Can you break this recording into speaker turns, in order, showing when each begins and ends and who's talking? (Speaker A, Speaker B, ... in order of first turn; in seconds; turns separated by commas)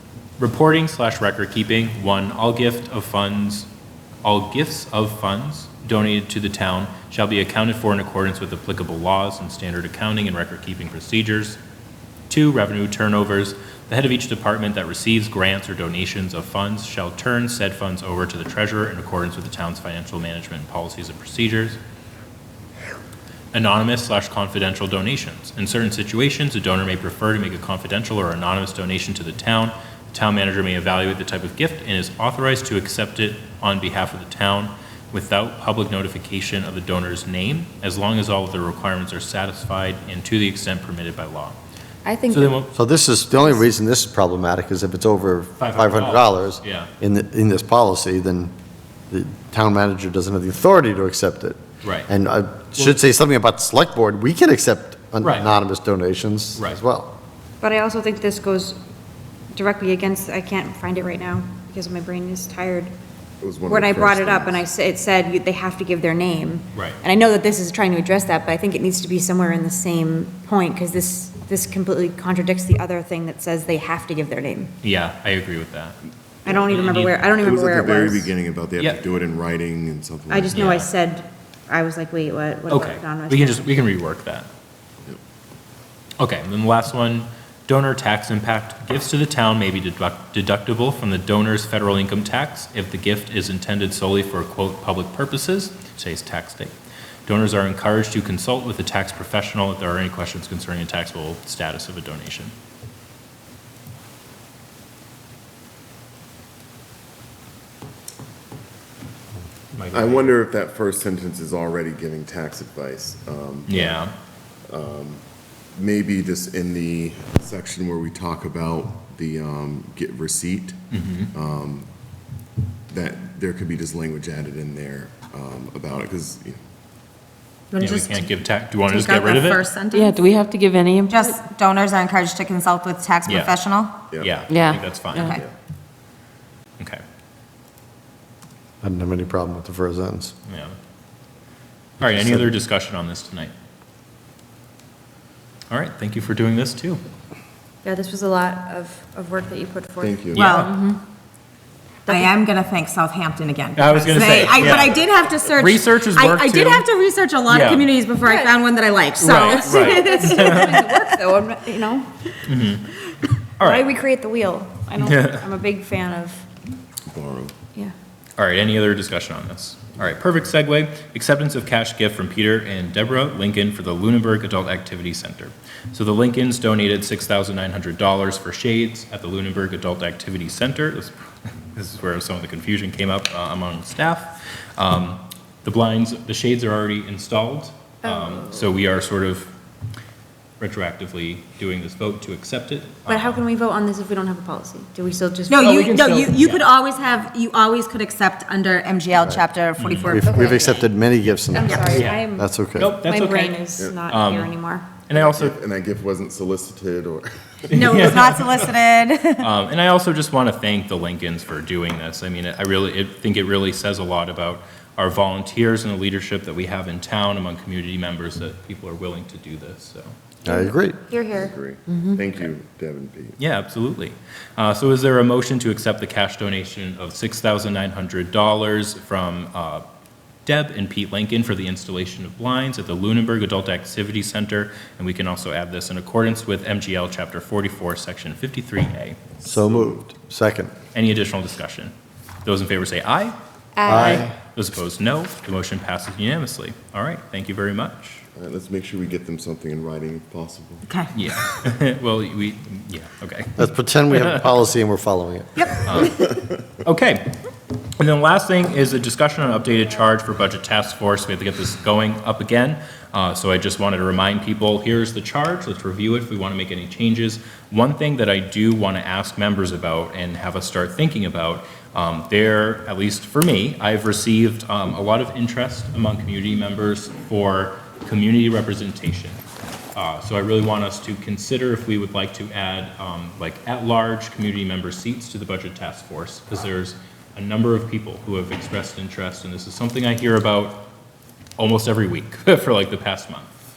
Speaker A: 0.4-3.7, Speaker A: 4.2-11.6, Speaker A: 12.3-21.8, Speaker A: 23.5-41.6, Speaker B: 42.0-42.6, Speaker A: 42.3-42.7, Speaker C: 42.7-48.5, Speaker A: 45.6-46.9, Speaker C: 49.1-57.1, Speaker A: 51.8-52.1, Speaker A: 52.8-53.0, Speaker A: 55.2-55.5, Speaker B: 57.6-58.8, Speaker B: 59.5-62.9, Speaker D: 63.4-64.7, Speaker B: 63.7-74.7, Speaker A: 66.7-67.0, Speaker A: 74.8-76.0, Speaker B: 76.5-78.3, Speaker D: 76.5-80.6, Speaker A: 76.7-77.2, Speaker B: 80.3-83.8, Speaker A: 80.5-80.9, Speaker A: 82.7-84.5, Speaker A: 86.2-96.7, Speaker A: 97.3-102.5, Speaker A: 109.7-110.4, Speaker D: 109.9-114.0, Speaker A: 113.7-114.1, Speaker D: 114.7-115.2, Speaker D: 115.8-120.8, Speaker A: 120.9-121.3, Speaker D: 121.3-121.9, Speaker D: 122.9-126.6, Speaker E: 127.7-128.3, Speaker A: 127.8-129.7, Speaker E: 128.9-130.3, Speaker F: 129.9-131.3, Speaker E: 131.1-133.9, Speaker A: 133.2-133.6, Speaker D: 134.1-134.4, Speaker A: 134.2-135.4, Speaker F: 134.5-134.8, Speaker E: 135.1-135.4, Speaker C: 138.8-140.3, Speaker A: 140.5-140.8, Speaker A: 142.0-143.5, Speaker C: 142.1-142.4, Speaker A: 145.7-147.0, Speaker B: 147.8-151.0, Speaker D: 150.0-150.6, Speaker E: 150.3-150.7, Speaker A: 150.3-150.8, Speaker B: 152.1-152.3, Speaker E: 152.1-161.0, Speaker A: 153.8-156.9, Speaker A: 157.5-157.9, Speaker B: 158.2-158.6, Speaker A: 159.2-160.8, Speaker B: 159.2-162.4, Speaker A: 162.4-162.9, Speaker A: 163.6-163.9, Speaker B: 163.6-166.4, Speaker A: 165.0-165.5, Speaker D: 167.1-167.6, Speaker A: 168.4-181.1, Speaker A: 181.7-189.5, Speaker A: 190.6-193.4, Speaker B: 193.1-196.0, Speaker E: 195.5-200.8, Speaker A: 195.6-196.7, Speaker A: 199.8-200.2, Speaker C: 200.1-203.0, Speaker B: 200.3-200.7, Speaker B: 201.5-205.0, Speaker E: 201.6-202.1, Speaker A: 201.9-204.5, Speaker D: 203.8-204.0, Speaker A: 205.1-205.6, Speaker D: 205.1-207.9, Speaker A: 207.7-208.7, Speaker E: 207.7-209.4, Speaker A: 209.4-220.1, Speaker C: 220.4-221.0, Speaker B: 220.4-221.5, Speaker D: 221.2-223.4, Speaker F: 221.9-222.2, Speaker A: 223.4-229.8, Speaker A: 230.5-239.2, Speaker D: 239.4-240.0, Speaker C: 239.4-240.7, Speaker A: 240.9-241.9, Speaker A: 242.4-248.2, Speaker C: 243.9-244.3, Speaker D: 248.4-250.9, Speaker E: 250.9-251.1, Speaker A: 251.1-254.5, Speaker C: 253.6-256.1, Speaker E: 255.6-256.0, Speaker A: 255.8-256.3, Speaker A: 256.8-257.4, Speaker A: 258.0-279.4, Speaker A: 279.9-290.9, Speaker A: 291.6-293.5